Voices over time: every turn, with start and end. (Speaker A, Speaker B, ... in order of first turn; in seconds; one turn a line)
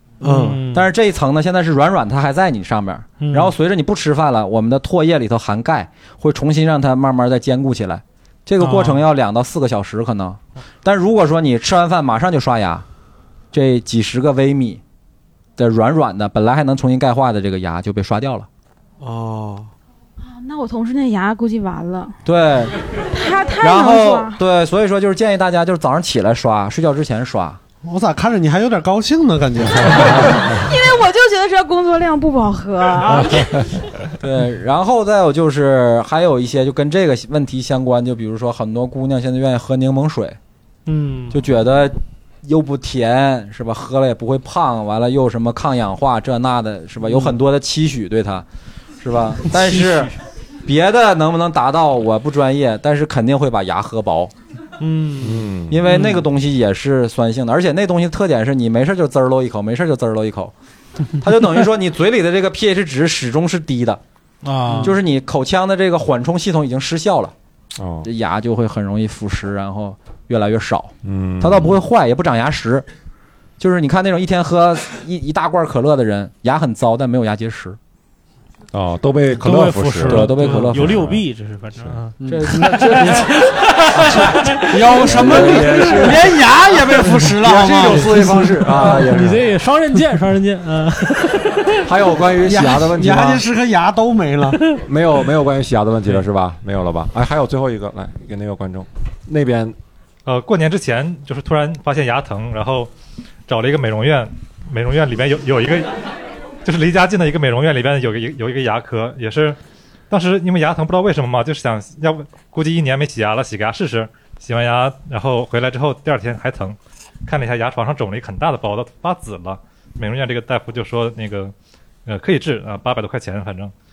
Speaker A: 0.2-0.6
Speaker B: 0.2-0.9
Speaker C: 0.7-12.8
Speaker B: 3.2-3.5
Speaker B: 8.6-9.0
Speaker C: 13.5-14.8
Speaker C: 15.6-18.5
Speaker A: 19.0-19.7
Speaker D: 20.2-22.2
Speaker C: 22.2-22.8
Speaker D: 23.1-24.4
Speaker C: 23.6-27.6
Speaker A: 27.8-30.5
Speaker D: 30.1-33.7
Speaker C: 34.2-40.4
Speaker B: 40.9-41.4
Speaker C: 41.3-48.5
Speaker C: 49.0-50.1
Speaker B: 49.5-50.1
Speaker C: 50.6-54.3
Speaker B: 54.8-56.2
Speaker E: 55.2-55.8
Speaker C: 55.7-60.5
Speaker C: 61.2-64.0
Speaker B: 64.4-64.9
Speaker C: 64.8-67.3
Speaker E: 67.8-68.1
Speaker C: 68.0-72.8
Speaker E: 71.0-71.8
Speaker C: 73.6-77.8
Speaker E: 78.7-81.2
Speaker B: 79.4-84.9
Speaker C: 80.1-81.0
Speaker A: 82.2-82.5
Speaker C: 82.3-83.4
Speaker A: 84.5-88.7
Speaker C: 84.9-86.2
Speaker E: 85.3-86.0
Speaker B: 85.6-86.1
Speaker C: 87.4-89.3
Speaker E: 88.0-89.5
Speaker B: 88.8-91.8
Speaker E: 91.8-93.4
Speaker A: 92.4-94.6
Speaker E: 94.8-99.8
Speaker F: 100.3-102.9
Speaker F: 103.5-105.9
Speaker F: 106.7-109.6
Speaker F: 110.1-121.5
Speaker F: 122.1-123.7